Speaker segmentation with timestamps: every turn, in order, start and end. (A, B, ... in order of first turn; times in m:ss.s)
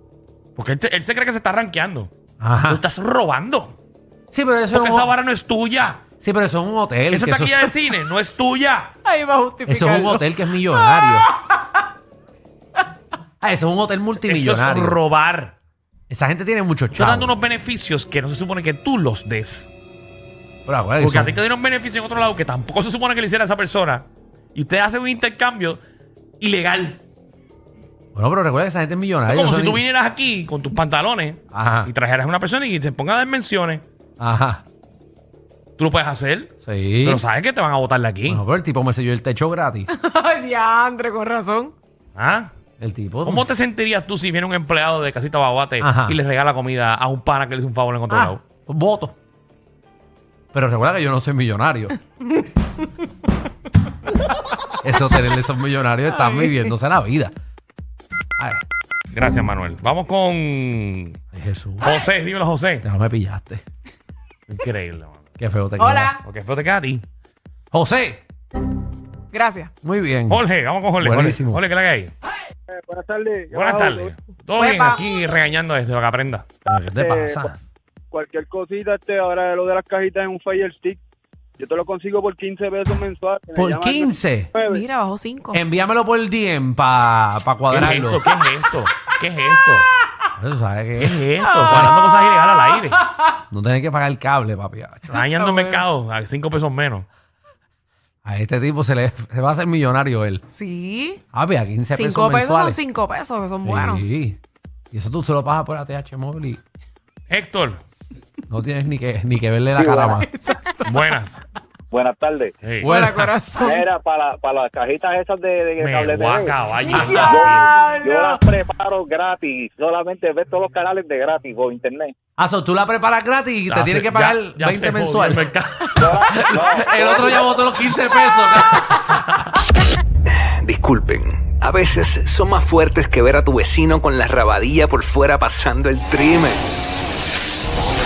0:00.6-0:02.1 A
0:02.4-0:02.8 B
0:02.7-0:03.8 A
0:04.3-0:05.2 B
0:04.7-0:06.0 A
0:06.2-0:07.7 B
0:07.1-0:08.9 A
0:09.0-0:11.8 C
0:09.7-0:11.3 B
0:13.4-0:15.0 B
0:14.2-0:15.5 A
0:16.1-0:17.3 B
0:16.9-0:19.7 A
0:20.7-0:21.4 B
0:21.0-0:25.8 A
0:26.4-0:27.0 A
0:28.2-0:29.8 B
0:29.3-0:33.8 A
0:31.5-0:31.9 B
0:34.2-0:34.6 B
0:35.8-0:36.5 A
0:36.6-0:37.2 B
0:37.0-0:38.4 A
0:38.3-0:39.9 B
0:39.9-0:41.7 C
0:42.2-0:42.5 A
0:42.8-0:43.5 B
0:43.2-0:48.4 A
0:45.8-0:46.2 B
0:48.1-0:49.2 B
0:50.5-0:52.0 B
0:54.8-0:57.3 B
0:56.1-0:56.6 C
0:58.4-0:58.6 B
0:59.1-1:01.2 A
1:01.3-1:01.9 B
1:01.8-1:02.8 A
1:02.8-1:03.6 B
1:04.5-1:05.2 A
1:05.4-1:06.2 B
1:05.8-1:06.2 C
1:06.2-1:07.0 A
1:07.7-1:08.2 B
1:09.3-1:09.7 C
1:09.8-1:10.4 B
1:10.3-1:12.1 A
1:11.0-1:11.6 B
1:12.7-1:14.2 D
1:13.5-1:16.5 A
1:14.6-1:15.0 C
1:16.7-1:17.6 B
1:16.9-1:17.6 D
1:18.1-1:21.0 D
1:21.6-1:24.8 D
1:23.6-1:24.6 B
1:24.7-1:25.6 C
1:25.5-1:28.2 B
1:27.7-1:29.9 A
1:30.4-1:32.0 B
1:31.0-1:33.0 A
1:31.4-1:33.1 C
1:33.5-1:35.2 B
1:35.1-1:37.1 A
1:35.2-1:35.9 C
1:38.2-1:40.4 B
1:40.5-1:41.2 C
1:41.3-1:42.8 B
1:41.9-1:44.0 C
1:43.6-1:44.4 B
1:44.9-1:46.6 B
1:47.3-1:47.8 A
1:48.5-1:50.3 B
1:49.8-1:50.2 E
1:50.2-1:51.1 C
1:50.8-1:51.4 A
1:51.9-1:52.6 E
1:52.6-1:53.3 A
1:52.8-1:53.2 B
1:52.9-1:53.9 C
1:53.6-2:02.1 E
1:55.8-1:57.7 A
1:56.8-1:58.4 C
2:02.4-2:05.5 B
2:03.7-2:06.6 A
2:06.0-2:07.4 E
2:06.3-2:09.4 B
2:10.6-2:16.6 F